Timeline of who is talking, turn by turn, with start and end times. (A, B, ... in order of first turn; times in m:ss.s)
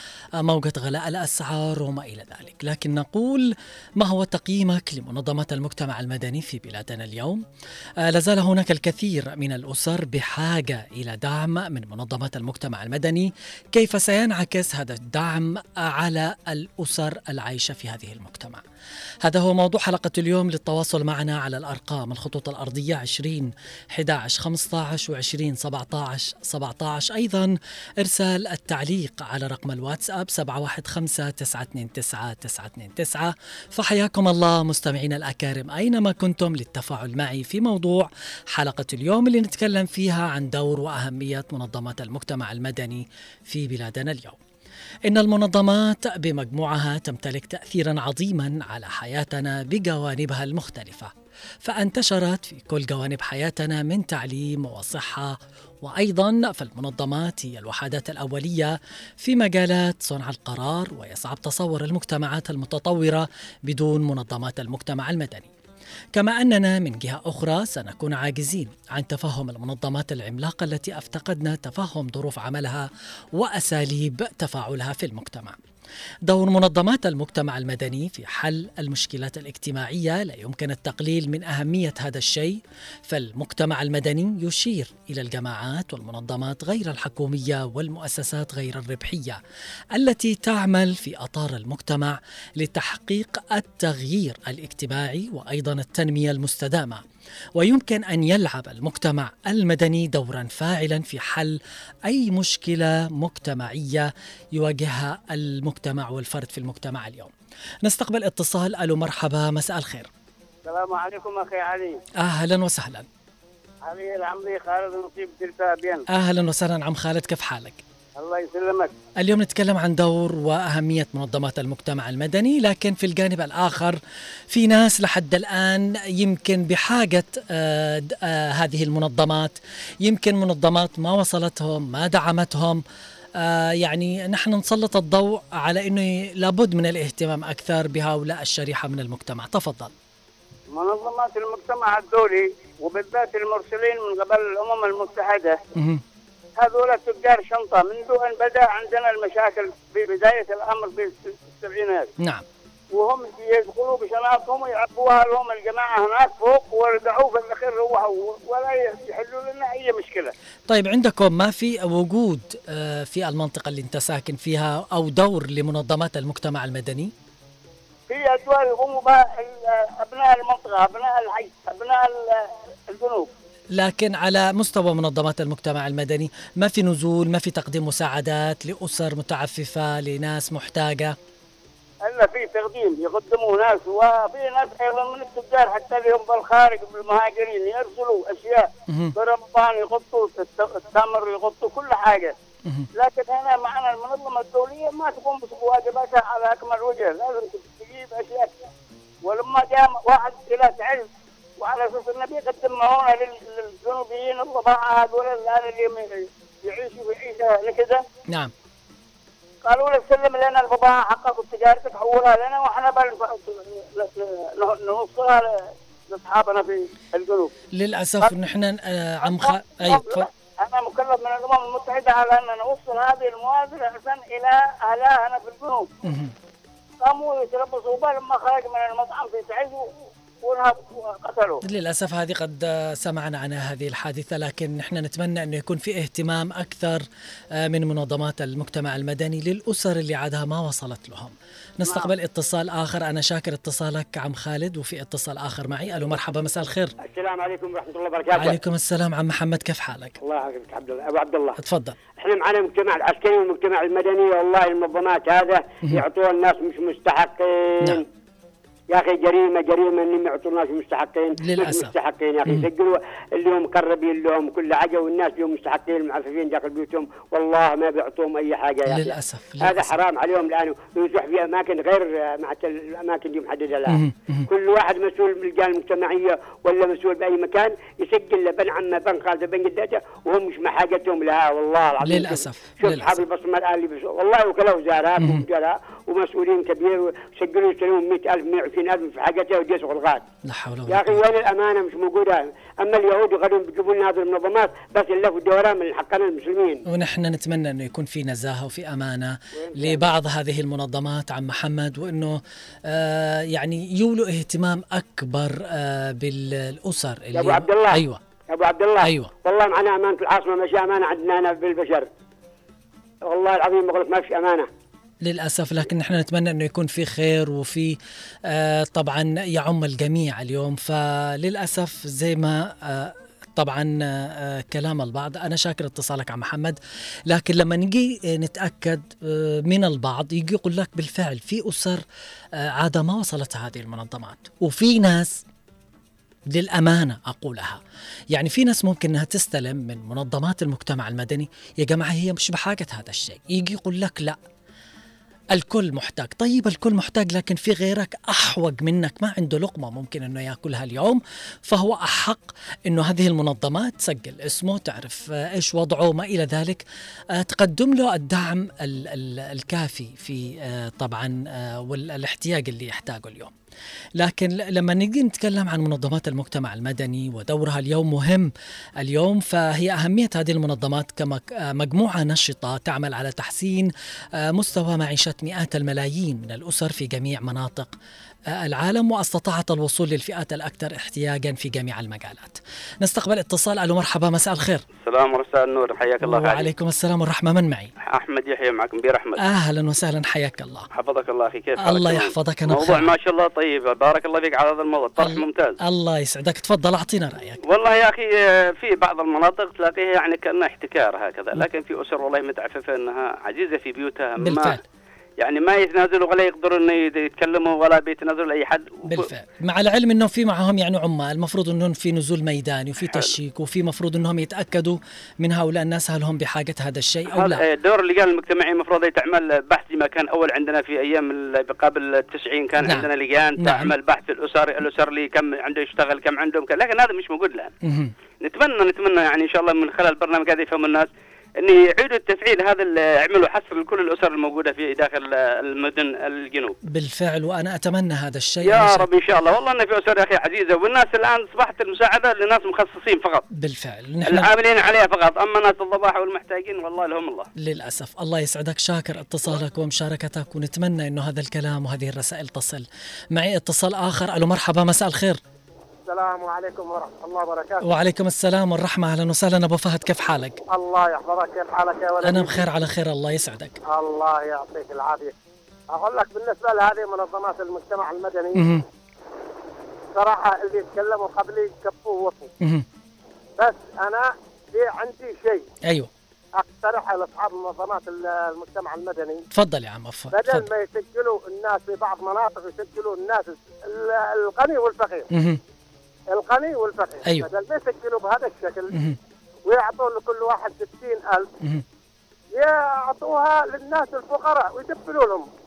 0:00.4-0:07.4 A
0:08.0-0:18.6 A
0:19.2-0:44.4 A
0:45.0-1:05.5 A
1:06.1-1:15.6 A
1:16.3-1:29.4 A
1:29.9-1:37.0 A
1:37.6-1:47.3 A
1:47.8-1:50.1 A
1:50.6-1:52.0 B
1:52.2-1:53.1 A
1:53.8-1:56.0 B
1:56.1-1:57.8 A
1:58.2-1:58.9 B
1:59.2-2:04.0 A
2:04.5-2:12.8 A
2:13.4-2:19.9 A
2:20.7-2:25.6 B
2:25.8-2:26.0 A
2:26.6-2:32.1 B
2:32.2-2:32.4 A
2:32.9-2:40.3 B
2:40.7-2:47.1 A
2:48.1-2:53.3 B
2:53.7-3:01.1 A
3:02.0-3:08.6 B
3:08.9-3:09.1 A
3:09.2-3:12.3 B
3:12.9-3:18.6 B
3:19.2-3:21.1 B
3:21.6-3:28.0 B
3:29.6-3:35.4 B
3:36.1-3:37.5 B
3:37.7-3:40.3 A
3:39.2-3:45.9 B
3:46.0-3:46.3 A
3:47.0-3:49.9 B
3:50.4-3:51.6 B
3:51.6-4:06.9 A
4:01.8-4:02.1 C
4:07.0-4:08.6 C
4:08.3-4:10.2 A
4:10.2-4:11.6 C
4:11.6-4:12.0 A
4:12.2-4:18.0 C
4:18.9-4:50.2 C
4:21.4-4:21.9 A
4:28.9-4:29.9 A
4:33.9-4:34.5 A
4:42.0-4:43.2 A
4:50.4-4:51.2 A
4:50.9-4:56.8 C
4:56.9-5:08.2 A
4:59.6-5:00.1 C
5:07.3-5:12.1 C
5:09.0-5:09.3 A
5:13.2-5:14.7 C
5:15.2-5:26.8 A
5:27.3-5:32.0 A
5:32.6-5:35.4 A
5:36.5-5:44.4 A
5:45.5-5:56.8 A
5:57.3-6:03.5 A
6:04.2-6:17.9 A
6:18.5-6:24.8 A
6:25.0-6:26.7 D
6:26.2-6:27.9 A
6:28.0-6:29.4 D
6:29.4-6:30.9 A
6:30.9-6:35.8 D
6:31.8-6:33.1 A
6:35.2-6:37.6 A
6:37.6-6:44.8 D
6:44.4-6:44.8 A
6:45.4-6:49.3 D
6:49.0-6:57.6 A
6:57.3-7:07.7 D
7:02.8-7:03.9 A
7:07.8-7:08.1 A
7:08.4-7:16.7 D
7:16.8-7:19.1 A
7:18.6-7:23.4 D
7:23.5-7:24.5 A
7:24.2-7:27.5 D
7:27.6-7:35.4 A
7:36.1-7:37.8 E
7:37.8-7:40.6 A
7:40.7-7:42.6 E
7:42.2-7:43.8 A
7:43.9-7:45.3 E
7:45.9-7:48.6 E
7:48.5-7:48.8 A
7:50.1-7:52.5 E
7:52.6-7:52.8 A
7:53.6-7:55.6 E
7:56.6-7:59.4 E
7:59.5-8:00.7 A
8:00.3-8:05.2 E
8:05.3-8:05.6 A
8:06.3-8:08.9 E
8:08.9-8:09.2 A
8:09.6-8:11.5 E
8:12.5-8:15.4 E